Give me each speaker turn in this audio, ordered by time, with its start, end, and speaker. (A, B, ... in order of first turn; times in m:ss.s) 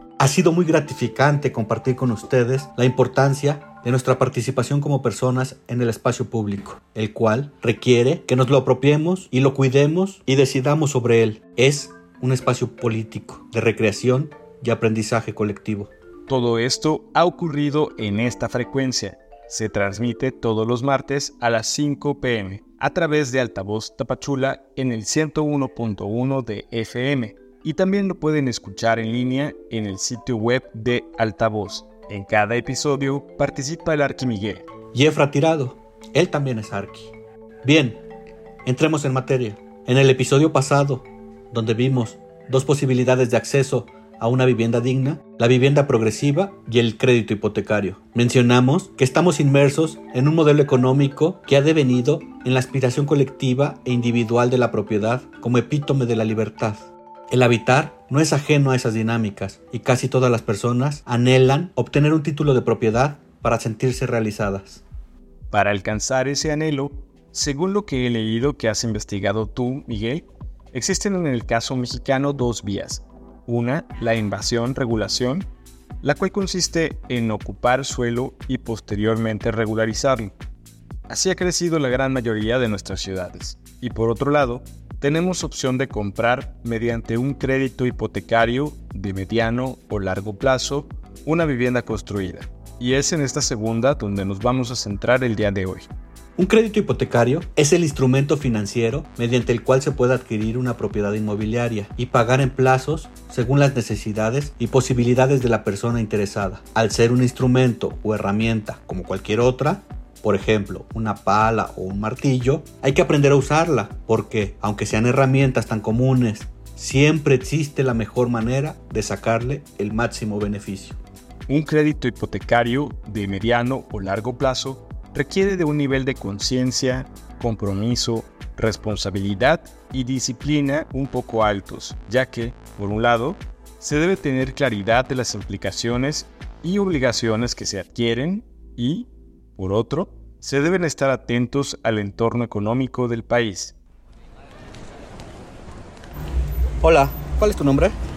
0:00.2-0:15.9 A
0:16.3-0:34.7 B
0:34.9-0:38.0 A
0:38.6-1:04.8 A
1:05.5-1:15.5 B
1:16.0-1:20.3 B
1:21.1-1:35.9 B
1:36.4-2:01.0 A
2:01.5-2:23.8 B
2:26.8-2:28.0 A